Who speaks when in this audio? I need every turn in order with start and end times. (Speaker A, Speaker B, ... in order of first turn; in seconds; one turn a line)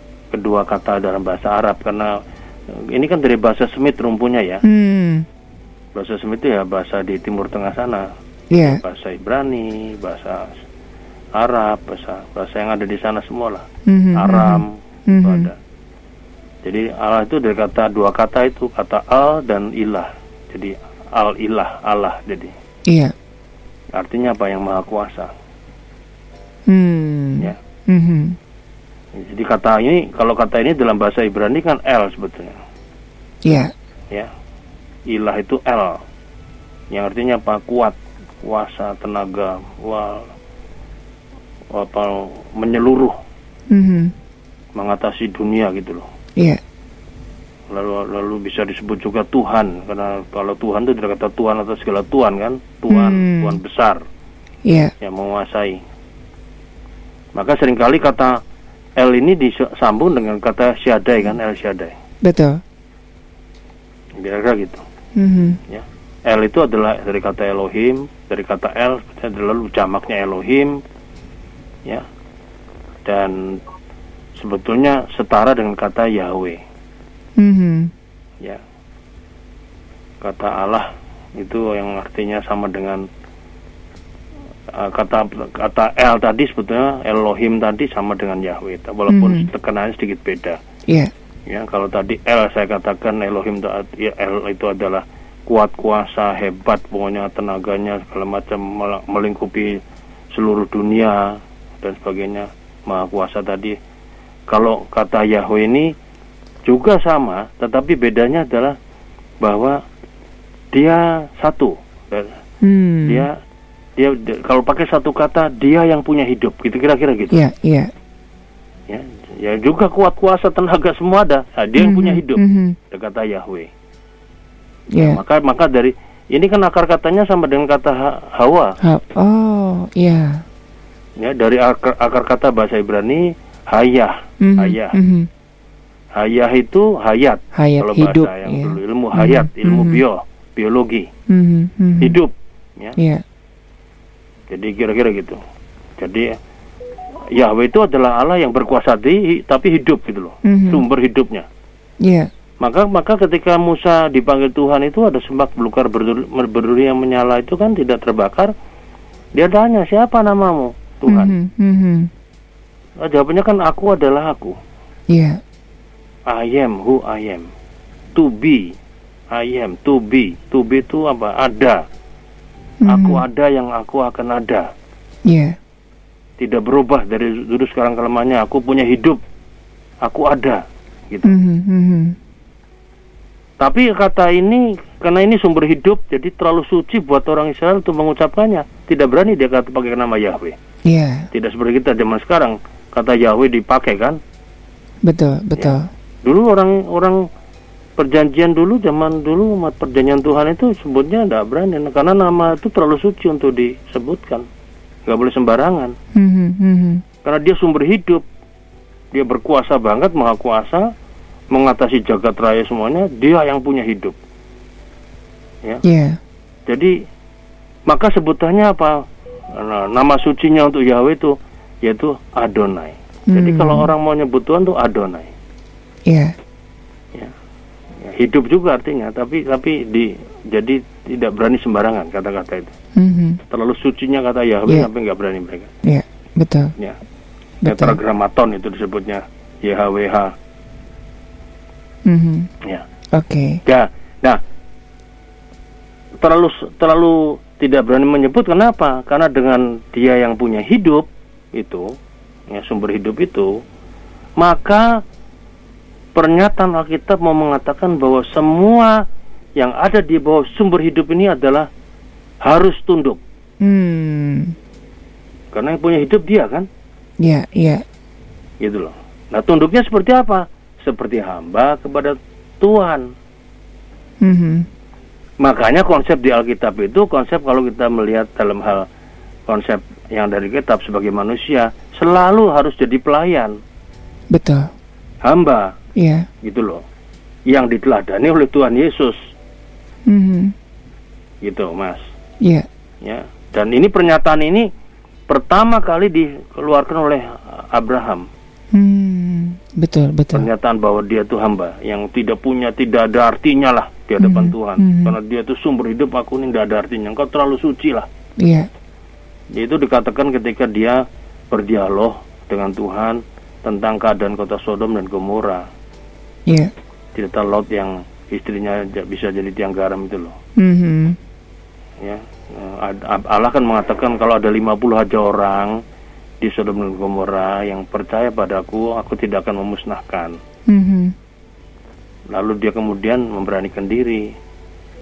Speaker A: 0.3-2.2
Speaker A: 2.7-4.6
Speaker B: 4.7-5.3
Speaker A: 6.0-10.6
Speaker B: 8.5-8.8
Speaker A: 11.3-15.6
Speaker B: 13.9-15.5
Speaker A: 16.6-22.6
Speaker B: 22.9-23.1
Speaker A: 23.9-25.3
Speaker B: 26.7-28.4
Speaker A: 29.1-32.6
Speaker B: 33.4-33.7
Speaker A: 35.1-36.0
Speaker A: 36.9-40.3
Speaker A: 41.7-43.2
Speaker B: 43.7-44.1
Speaker A: 44.8-46.1
Speaker A: 47.7-54.0
Speaker B: 52.9-53.6
Speaker B: 54.6-54.9
Speaker A: 55.0-55.8
Speaker A: 57.4-58.4
Speaker A: 59.0-61.9
Speaker B: 62.2-62.6
Speaker A: 64.2-64.8
Speaker B: 65.2-65.6
Speaker A: 65.7-70.8
Speaker A: 73.0-73.6
Speaker A: 74.3-76.6
Speaker B: 77.4-77.9
Speaker A: 80.2-83.1
Speaker A: 84.7-90.6
Speaker B: 89.1-89.5
Speaker A: 91.5-103.8
Speaker A: 104.5-105.9
Speaker A: 106.7-108.8
Speaker A: 109.4-109.8
Speaker A: 110.7-112.4
Speaker B: 112.6-113.3
Speaker A: 113.1-113.4
Speaker A: 114.0-117.4
Speaker B: 117.3-117.9
Speaker A: 118.9-123.7
Speaker B: 121.8-122.8
Speaker B: 124.9-125.2
Speaker A: 125.0-128.8
Speaker B: 128.8-130.4
Speaker A: 131.2-135.0
Speaker B: 134.4-135.3
Speaker A: 136.1-141.1
Speaker B: 137.5-140.0
Speaker B: 141.3-142.2
Speaker A: 142.0-143.0
Speaker B: 143.0-143.2
Speaker A: 144.5-145.4
Speaker A: 146.0-146.4
Speaker A: 147.3-151.5
Speaker B: 150.4-150.8
Speaker B: 152.0-152.3
Speaker A: 152.6-158.5
Speaker A: 159.3-161.4
Speaker B: 161.1-162.1
Speaker A: 163.0-164.6
Speaker B: 165.1-165.4
Speaker A: 166.3-167.5
Speaker A: 168.2-168.8
Speaker A: 169.3-171.8
Speaker B: 172.8-173.2
Speaker A: 172.9-174.7
Speaker B: 175.3-175.6
Speaker A: 176.4-179.2
Speaker A: 180.0-181.3
Speaker B: 181.2-182.2
Speaker A: 183.6-190.6
Speaker B: 190.8-191.3
Speaker A: 191.3-194.2
Speaker B: 195.1-195.9
Speaker A: 195.6-197.3
Speaker A: 198.0-204.5
Speaker A: 205.1-206.0
Speaker B: 206.1-207.0
Speaker A: 207.2-208.2
Speaker A: 209.1-210.9
Speaker A: 211.5-214.2
Speaker B: 215.8-216.2
Speaker A: 216.7-217.1
Speaker A: 217.9-225.3
Speaker B: 223.3-223.9
Speaker B: 226.1-226.3
Speaker A: 228.0-232.7
Speaker B: 232.9-233.4
Speaker A: 233.5-235.7
Speaker B: 235.8-236.7
Speaker B: 237.6-238.0
Speaker A: 237.7-240.3
Speaker B: 242.1-242.5
Speaker B: 243.1-243.6
Speaker A: 243.7-244.4
Speaker A: 246.2-251.9
Speaker A: 252.5-253.6
Speaker A: 254.4-255.0
Speaker A: 256.1-259.1
Speaker A: 259.6-261.7
Speaker A: 262.4-263.2
Speaker B: 263.6-264.6
Speaker A: 265.5-266.7
Speaker B: 267.2-267.9
Speaker A: 268.6-273.1
Speaker B: 274.2-274.7
Speaker A: 275.4-278.9
Speaker A: 279.5-283.6
Speaker B: 284.3-284.7
Speaker A: 285.2-285.8
Speaker B: 286.0-286.3
Speaker A: 286.4-286.8
Speaker A: 287.5-289.3
Speaker B: 290.1-290.6
Speaker A: 291.4-292.1
Speaker B: 292.4-292.7
Speaker A: 293.0-294.7
Speaker A: 295.3-298.3
Speaker B: 298.7-300.5
Speaker A: 300.3-308.1
Speaker B: 304.2-305.1
Speaker B: 308.4-308.7
Speaker A: 309.5-315.7
Speaker B: 316.5-316.7
Speaker A: 317.1-320.4
Speaker B: 320.6-321.2
Speaker A: 322.0-325.8
Speaker A: 326.4-330.4
Speaker B: 330.7-331.1
Speaker A: 332.3-334.3